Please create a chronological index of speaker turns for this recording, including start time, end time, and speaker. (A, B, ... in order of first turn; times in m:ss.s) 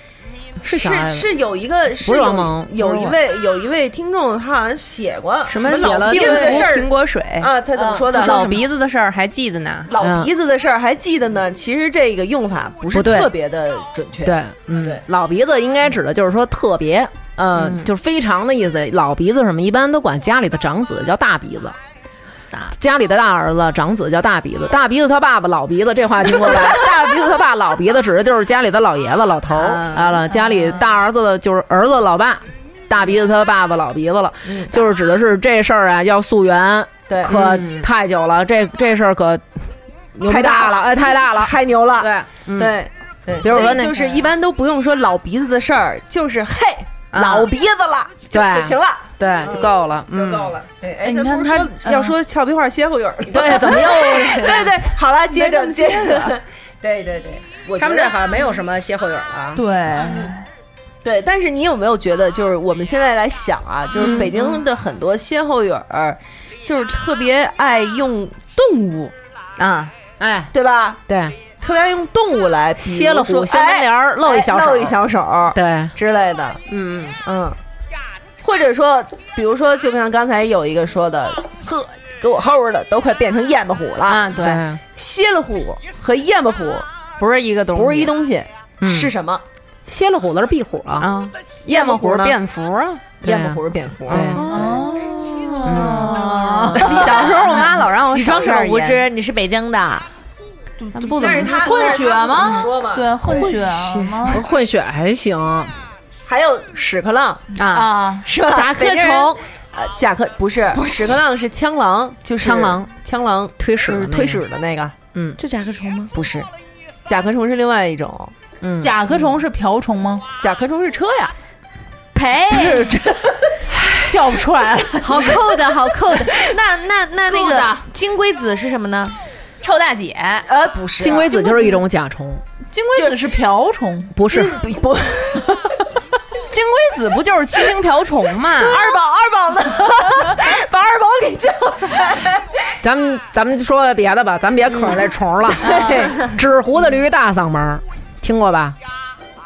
0:00.6-0:01.3 A
0:00.7-0:08.6 B
0:02.0-0:03.2 A
0:05.5-0:07.5 C
0:05.5-0:06.7 A
0:07.7-0:08.7 A
0:08.1-0:09.9 C
0:09.9-0:15.0 B
0:10.0-0:10.3 A
0:12.9-0:13.3 A
0:14.2-0:21.8 A
0:17.6-0:17.8 C
0:22.7-0:39.4 A
0:29.6-0:30.2 B
0:37.1-0:37.7 B
0:40.2-0:42.8 A
0:40.3-0:58.2 B
0:43.4-0:44.1 A
0:47.1-0:47.5 C
0:48.3-0:50.6 A
0:51.0-0:52.1 D
0:53.3-0:54.8 A
0:55.3-0:56.3 D
0:57.8-0:59.6 A
0:59.6-1:00.5 D
1:00.0-1:00.3 B
1:01.0-1:09.1 B
1:04.0-1:04.3 A
1:04.0-1:04.4 C
1:09.6-1:09.9 C
1:10.2-1:10.5 A
1:10.5-1:11.0 B
1:11.1-1:11.4 A
1:11.6-1:16.6 B
1:12.8-1:15.0 A
1:15.5-1:16.0 A
1:16.7-1:17.2 A
1:17.2-1:17.6 B
1:18.4-1:24.3 B
1:24.1-1:24.6 C
1:24.3-1:24.8 A
1:25.0-1:26.9 B
1:27.2-1:28.1 C
1:27.7-1:29.4 B
1:28.8-1:29.1 A
1:29.9-1:31.1 A
1:31.0-1:33.1 C
1:31.7-1:32.4 B
1:33.2-1:34.4 B
1:33.2-1:34.6 A
1:34.1-1:39.0 C
1:34.5-1:36.8 D
1:35.6-1:37.1 A
1:36.8-1:37.4 B
1:38.1-1:40.1 E
1:40.8-1:44.4 D
1:41.0-1:42.6 C
1:41.1-1:43.5 B
1:44.2-1:45.8 A
1:46.3-1:47.5 B
1:47.6-1:48.0 C
1:47.7-1:48.2 D
1:47.7-1:49.4 E
1:48.2-1:54.9 B
1:52.4-1:52.9 A
1:53.6-1:54.4 A
1:55.4-1:56.1 E
1:56.1-1:56.5 B
1:57.1-1:58.3 B
1:58.6-1:59.0 A
1:58.8-2:00.2 D
2:00.4-2:01.3 B
2:02.1-2:02.9 E
2:02.5-2:03.1 D
2:03.8-2:05.4 D
2:05.0-2:10.4 E
2:07.3-2:07.8 D
2:10.5-2:11.4 B
2:11.0-2:12.4 A
2:12.7-2:14.1 D
2:12.9-2:13.3 B
2:14.1-2:14.6 A
2:14.2-2:15.7 B
2:16.5-2:18.8 C
2:18.6-2:22.4 B
2:22.8-2:28.8 A
2:24.8-2:25.1 B
2:25.6-2:26.2 B